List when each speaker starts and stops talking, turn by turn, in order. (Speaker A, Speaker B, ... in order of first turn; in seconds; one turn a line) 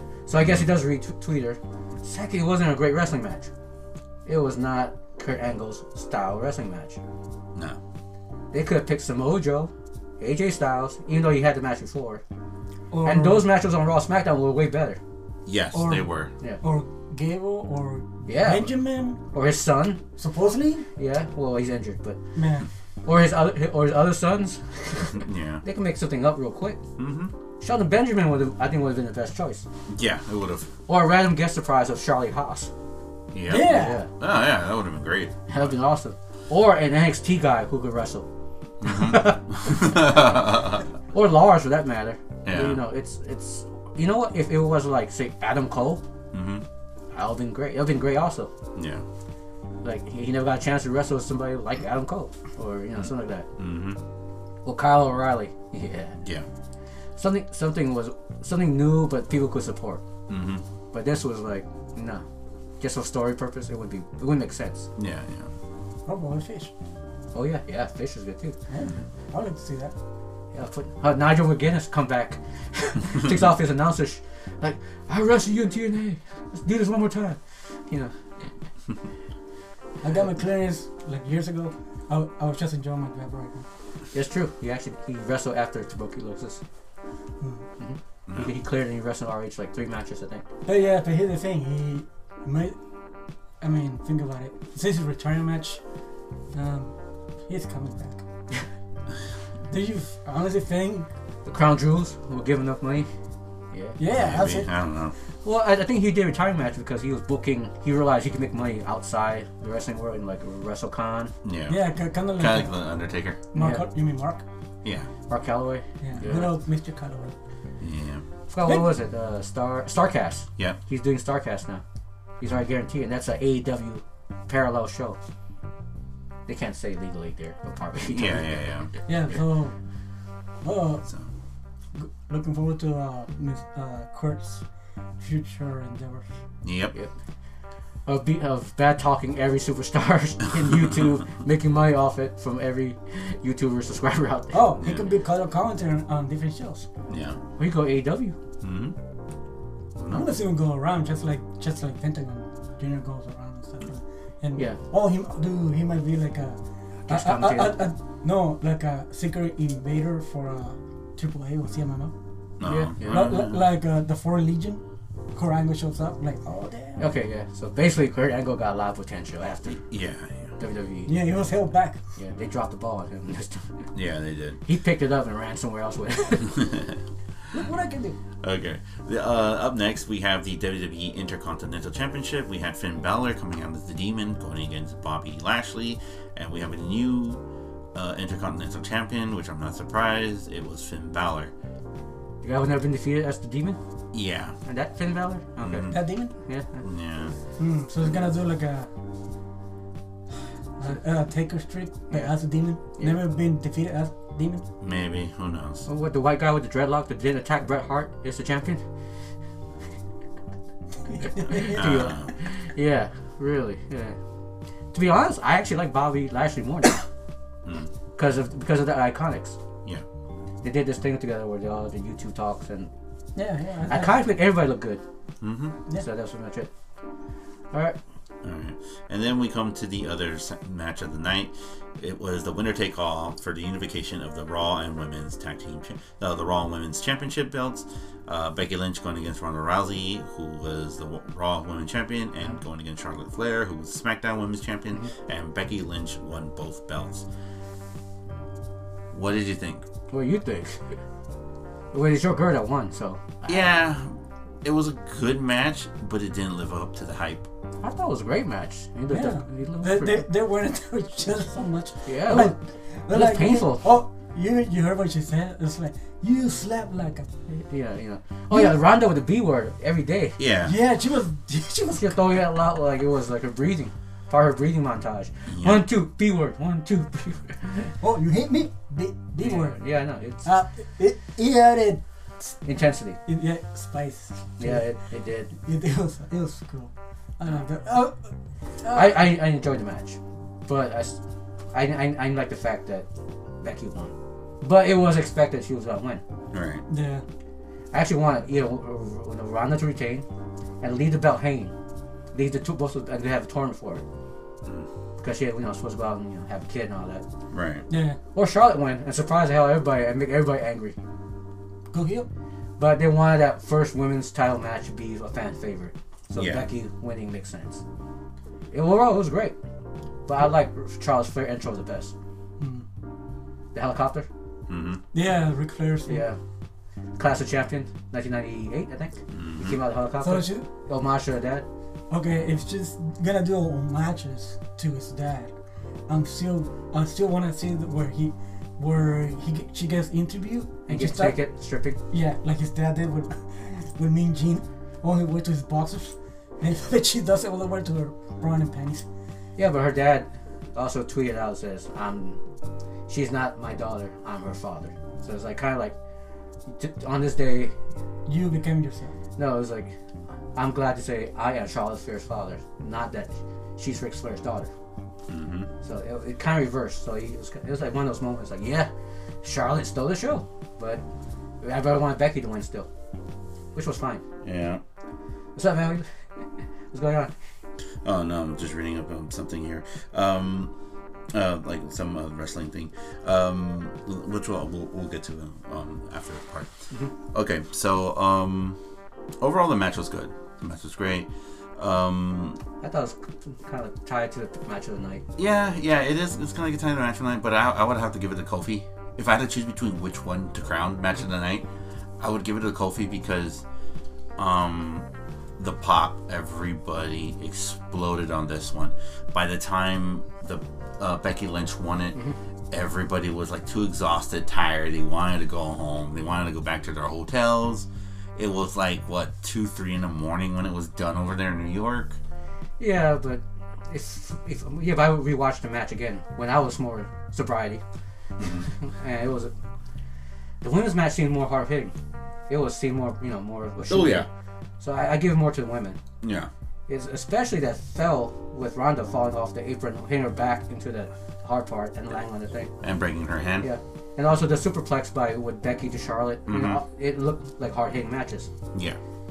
Speaker A: 0.3-3.5
Speaker B: 0.4-0.7
Speaker A: 4.3-7.0
Speaker A: 8.5-12.2
Speaker C: 12.9-13.5
Speaker A: 13.0-15.0
Speaker B: 15.5-16.3
Speaker C: 15.7-16.1
Speaker C: 16.6-19.2
Speaker A: 18.3-20.0
Speaker C: 20.2-20.9
Speaker A: 21.0-22.2
Speaker C: 22.4-22.7
Speaker A: 23.1-26.8
Speaker B: 25.0-25.6
Speaker B: 27.0-27.3
Speaker A: 27.6-29.7
Speaker B: 29.9-30.7
Speaker A: 30.9-32.7
Speaker B: 33.3-35.7
Speaker C: 33.5-34.0
Speaker A: 33.6-34.1
Speaker A: 35.5-38.3
Speaker B: 38.8-40.9
Speaker A: 38.8-40.6
Speaker A: 41.1-46.0
Speaker B: 42.5-42.8
Speaker B: 46.3-46.6
Speaker A: 47.1-48.5
Speaker B: 48.8-49.0
Speaker A: 49.8-53.5
Speaker B: 53.0-54.0
Speaker A: 54.6-56.2
Speaker A: 57.2-60.0
Speaker B: 60.3-60.6
Speaker A: 60.9-62.2
Speaker A: 62.8-64.9
Speaker B: 65.0-65.5
Speaker C: 66.1-66.7
Speaker A: 67.3-68.6
Speaker C: 68.7-70.0
Speaker A: 70.5-78.5
Speaker C: 80.0-83.7
Speaker A: 84.1-86.6
Speaker C: 87.4-87.7
Speaker A: 87.8-90.5
Speaker B: 88.3-88.5
Speaker C: 90.7-92.8
Speaker C: 93.6-95.8
Speaker C: 96.5-96.9
Speaker C: 97.5-98.2
Speaker C: 99.7-101.1
Speaker A: 101.5-103.1
Speaker A: 103.7-104.0
Speaker C: 104.0-104.7
Speaker B: 104.1-105.2
Speaker A: 105.4-111.3
Speaker B: 111.4-111.8
Speaker C: 111.7-112.8
Speaker B: 112.4-113.4
Speaker C: 113.5-114.4
Speaker A: 113.5-113.8
Speaker B: 114.8-115.1
Speaker A: 115.3-116.5
Speaker C: 116.0-117.3
Speaker B: 117.8-118.2
Speaker A: 118.5-121.8
Speaker A: 122.4-125.2
Speaker A: 126.5-128.7
Speaker B: 128.0-128.9
Speaker C: 129.1-129.7
Speaker C: 130.6-131.1
Speaker C: 131.9-134.6
Speaker C: 135.2-136.3
Speaker B: 136.6-136.9
Speaker A: 138.1-144.8
Speaker C: 144.5-146.9
Speaker B: 144.8-145.1
Speaker B: 147.1-147.4
Speaker A: 147.6-148.4
Speaker B: 148.6-149.0
Speaker B: 150.0-150.3
Speaker C: 150.1-162.1
Speaker A: 157.1-157.8
Speaker B: 162.6-163.7
Speaker A: 162.7-163.4
Speaker C: 163.0-164.8
Speaker C: 165.3-167.1
Speaker A: 167.0-169.9
Speaker B: 169.9-170.5
Speaker A: 170.6-171.2
Speaker C: 171.1-172.0
Speaker A: 172.2-173.9
Speaker B: 173.9-174.6
Speaker A: 174.7-176.8
Speaker B: 176.6-177.0
Speaker C: 177.5-178.2
Speaker B: 178.4-187.4
Speaker B: 187.9-191.5
Speaker A: 192.4-193.8
Speaker B: 194.1-194.6
Speaker A: 194.7-196.8
Speaker B: 195.6-196.0
Speaker C: 195.9-196.3
Speaker B: 196.8-197.3
Speaker C: 197.6-198.9
Speaker C: 200.8-204.7
Speaker B: 204.8-205.9
Speaker A: 205.9-208.8
Speaker C: 211.1-211.8
Speaker A: 211.2-214.2
Speaker B: 211.6-212.3
Speaker A: 214.9-217.0
Speaker A: 218.2-219.6
Speaker A: 220.6-222.9
Speaker C: 223.4-224.2
Speaker A: 223.9-225.0
Speaker B: 225.4-225.8
Speaker A: 225.9-226.7
Speaker A: 227.7-228.0
Speaker B: 228.4-247.3
Speaker B: 249.1-249.8
Speaker A: 250.1-251.0
Speaker A: 251.9-253.6
Speaker B: 253.5-257.5
Speaker A: 257.8-260.3
Speaker C: 259.1-267.3
Speaker A: 262.1-262.6
Speaker A: 263.1-263.9
Speaker A: 267.5-270.4
Speaker C: 268.5-268.8
Speaker B: 270.4-270.8
Speaker C: 270.6-272.4
Speaker A: 272.0-277.9
Speaker B: 275.5-275.9
Speaker C: 278.0-279.8
Speaker A: 279.4-280.5
Speaker C: 280.4-282.0
Speaker A: 282.6-283.2
Speaker C: 283.3-284.9
Speaker A: 284.6-285.5
Speaker C: 285.5-288.3
Speaker C: 288.8-289.3
Speaker A: 288.9-291.2
Speaker A: 291.7-293.1
Speaker A: 293.6-296.2
Speaker B: 296.5-296.8
Speaker C: 296.9-297.2
Speaker A: 297.9-300.2
Speaker A: 300.8-301.7
Speaker A: 302.3-304.0
Speaker A: 305.2-307.2
Speaker B: 307.5-307.9
Speaker C: 307.9-308.2
Speaker A: 308.3-311.0
Speaker C: 311.9-312.3
Speaker A: 312.8-317.8
Speaker B: 316.4-316.6
Speaker A: 318.7-319.6
Speaker A: 320.3-322.1
Speaker C: 322.6-322.9
Speaker A: 323.7-324.3
Speaker B: 324.7-325.0
Speaker C: 325.1-326.3
Speaker A: 326.1-326.4
Speaker A: 327.2-331.7
Speaker B: 329.3-329.8
Speaker C: 330.2-330.7
Speaker C: 332.1-335.5
Speaker C: 336.1-341.4
Speaker A: 340.9-342.0
Speaker C: 342.1-349.1
Speaker A: 349.6-352.4
Speaker A: 353.1-355.9
Speaker A: 356.7-357.8
Speaker C: 358.3-359.2
Speaker A: 359.4-360.0
Speaker A: 360.6-364.7
Speaker B: 365.3-365.7
Speaker A: 365.8-368.9
Speaker A: 369.4-371.0
Speaker A: 371.6-372.9
Speaker A: 373.8-374.2
Speaker B: 374.4-374.8
Speaker A: 375.6-377.3
Speaker B: 378.0-380.7
Speaker B: 381.3-386.7
Speaker B: 387.3-388.8
Speaker B: 389.4-392.6
Speaker A: 392.8-395.2
Speaker B: 395.4-401.7
Speaker B: 402.2-403.6
Speaker B: 404.4-422.2
Speaker A: 422.8-427.8
Speaker B: 428.4-428.7
Speaker A: 428.6-429.5
Speaker A: 430.6-431.9
Speaker A: 432.5-434.3
Speaker B: 433.9-434.3
Speaker A: 434.8-436.0
Speaker B: 436.2-436.5
Speaker A: 436.9-442.7
Speaker B: 442.8-443.7
Speaker A: 443.6-448.5
Speaker B: 446.5-446.8
Speaker B: 448.7-449.0